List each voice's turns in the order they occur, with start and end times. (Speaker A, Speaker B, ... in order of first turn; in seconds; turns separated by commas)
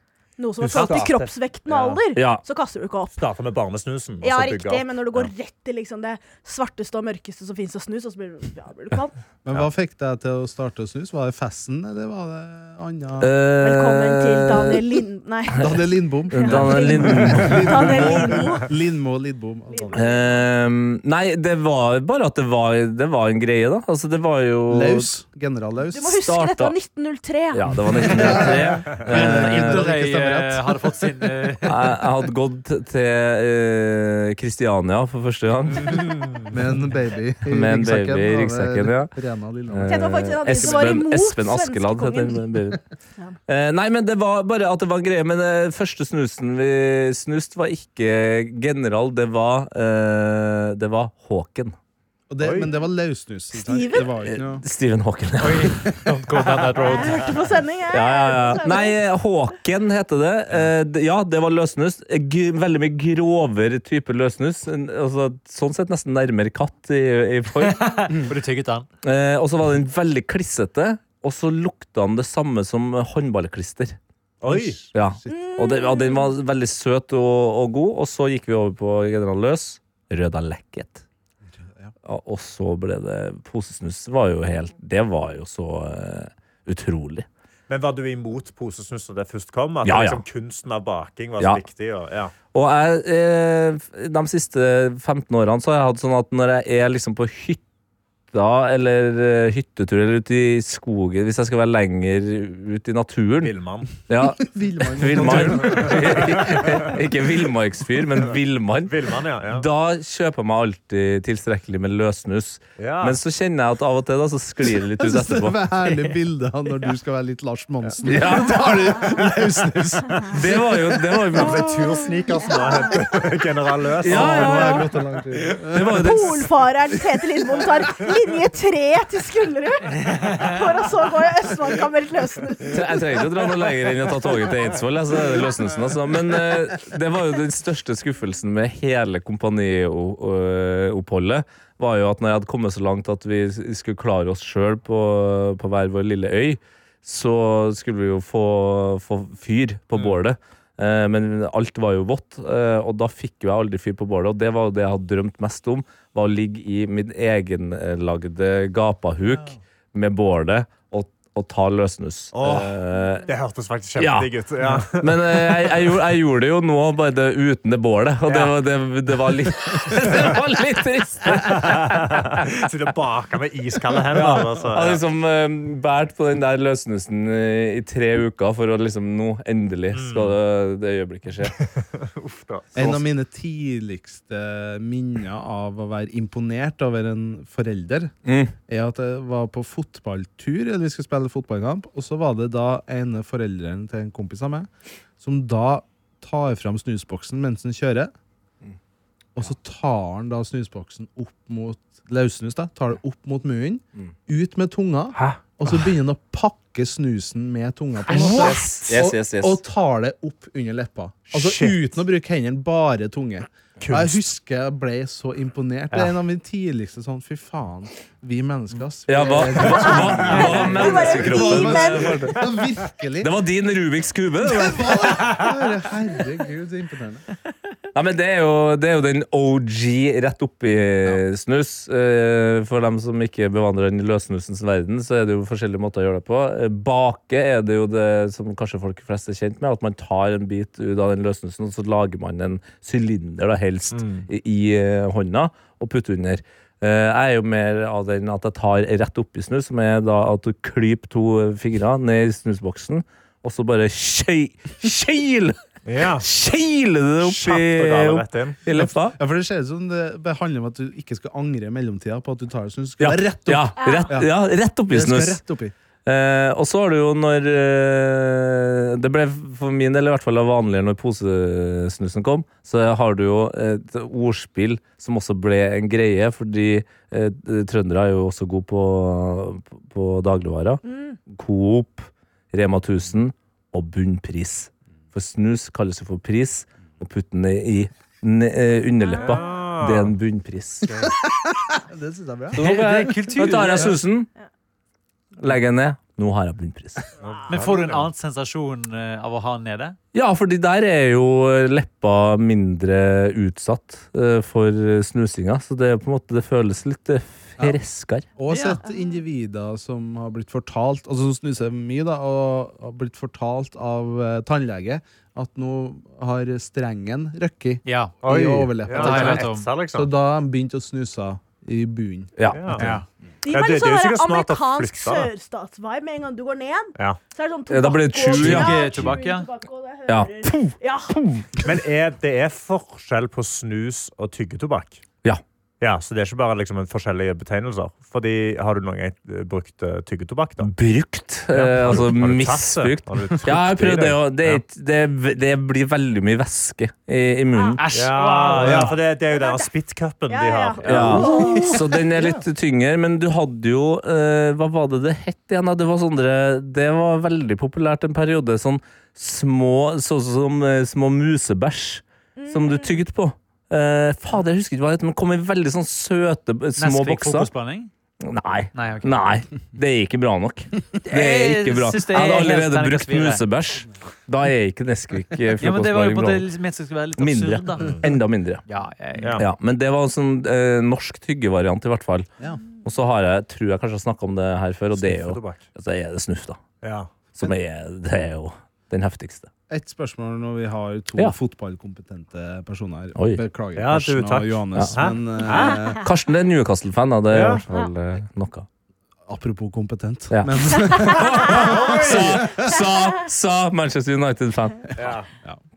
Speaker A: 0.4-3.1, Speaker B: 0.6-2.0, Speaker C: 2.1-2.4, Speaker B: 3.2-5.3, Speaker A: 4.2-9.1, Speaker D: 9.4-13.3, Speaker C: 13.2-14.9, Speaker A: 13.6-18.7, Speaker D: 15.6-20.4, Speaker C: 16.3-18.2, Speaker A: 19.7-20.2, Speaker C: 19.9-25.1, Speaker D: 24.7-26.1, Speaker A: 25.9-28.2, Speaker C: 26.0-26.8, Speaker C: 27.5-30.0, Speaker D: 28.0-31.3, Speaker E: 29.1-31.8, Speaker C: 31.6-36.2, Speaker D: 36.5-40.8, Speaker C: 37.5-39.1, Speaker C: 39.7-42.8, Speaker A: 39.8-42.4, Speaker C: 43.5-51.8, Speaker D: 52.3-54.6, Speaker B: 52.4-52.7, Speaker A: 53.5-54.1, Speaker C: 54.2-56.0, Speaker E: 55.4-57.3, Speaker A: 56.9-59.0, Speaker C: 57.9-68.2, Speaker E: 67.6-68.9, Speaker C: 69.0-74.0, Speaker B: 74.4-74.8, Speaker D: 74.5-75.4, Speaker C: 74.9-81.0, Speaker A: 75.3-76.3, Speaker D: 81.6-81.9, Speaker C: 82.0-87.3, Speaker B: 87.7-92.3, Speaker C: 89.8-90.2, Speaker C: 92.5-97.6, Speaker C: 98.3-103.5, Speaker B: 103.4-103.9, Speaker C: 104.1-115.6, Speaker D: 104.2-107.0, Speaker B: 105.1-106.9, Speaker B: 108.9-109.7, Speaker B: 112.8-113.2, Speaker D: 115.0-120.8, Speaker B: 117.8-118.2, Speaker C: 118.0-118.9, Speaker C: 120.3-122.0, Speaker B: 121.3-124.8, Speaker A: 122.5-122.9, Speaker C: 124.0-124.8, Speaker D: 124.0-126.1, Speaker A: 124.4-124.8, Speaker C: 125.7-126.5, Speaker A: 125.9-133.1, Speaker D: 127.0-128.0, Speaker E: 130.0-130.6, Speaker C: 132.7-163.2, Speaker B: 162.3-165.9, Speaker C: 164.0-172.4, Speaker B: 168.2-168.5, Speaker B: 171.3-175.0, Speaker C: 174.1-181.6, Speaker B: 179.9-180.4, Speaker B: 181.6-183.0, Speaker D: 182.7-188.1, Speaker C: 188.2-188.5, Speaker D: 188.7-194.7, Speaker D: 195.2-198.1, Speaker D: 199.3-223.3, Speaker C: 205.1-205.8, Speaker C: 208.1-209.6, Speaker B: 211.3-211.9, Speaker B: 213.8-214.2, Speaker C: 219.1-222.4, Speaker A: 219.7-222.3, Speaker B: 220.3-220.6, Speaker C: 223.2-225.2, Speaker D: 224.4-227.3, Speaker C: 227.9-259.2, Speaker B: 243.9-244.3, Speaker B: 255.8-256.3, Speaker B: 257.2-258.6, Speaker D: 258.7-264.3, Speaker C: 263.0-265.4, Speaker A: 263.8-264.1, Speaker D: 264.9-265.7, Speaker C: 266.1-290.9, Speaker A: 280.8-281.2, Speaker A: 289.1-289.4, Speaker B: 289.2-290.1, Speaker D: 291.0-293.7, Speaker C: 292.5-294.3, Speaker E: 292.6-294.0, Speaker C: 295.4-297.1, Speaker B: 297.2-298.1, Speaker E: 297.5-300.0, Speaker C: 300.1-308.3, Speaker D: 308.4-323.0, Speaker E: 308.5-308.8, Speaker A: 308.9-309.2, Speaker E: 317.8-318.1, Speaker B: 318.2-320.1, Speaker E: 318.9-319.7, Speaker C: 322.4-322.8, Speaker B: 322.5-322.9, Speaker E: 322.8-323.0, Speaker A: 323.4-331.2, Speaker B: 323.5-325.3, Speaker C: 327.7-328.8, Speaker E: 328.3-329.5, Speaker C: 330.1-331.5, Speaker B: 331.6-335.0, Speaker B: 335.8-340.7, Speaker C: 340.6-347.8, Speaker B: 341.5-344.6, Speaker E: 347.8-349.0, Speaker B: 347.9-351.4, Speaker A: 349.3-349.7, Speaker A: 350.3-351.9, Speaker C: 350.8-367.5, Speaker A: 362.4-363.0, Speaker E: 366.8-367.9, Speaker C: 368.2-376.4, Speaker E: 368.7-369.2, Speaker E: 371.0-373.4, Speaker E: 375.6-378.0, Speaker C: 377.2-378.6, Speaker E: 378.7-379.4, Speaker B: 379.2-379.4, Speaker C: 379.4-382.3, Speaker C: 382.8-386.6, Speaker B: 384.9-385.6, Speaker B: 386.8-387.1, Speaker C: 387.3-389.5, Speaker D: 389.7-396.1, Speaker C: 393.1-393.4, Speaker B: 393.8-395.8, Speaker C: 395.5-398.7, Speaker B: 397.3-397.6, Speaker D: 399.3-402.8, Speaker C: 400.3-404.9, Speaker B: 401.5-402.5, Speaker B: 405.0-405.3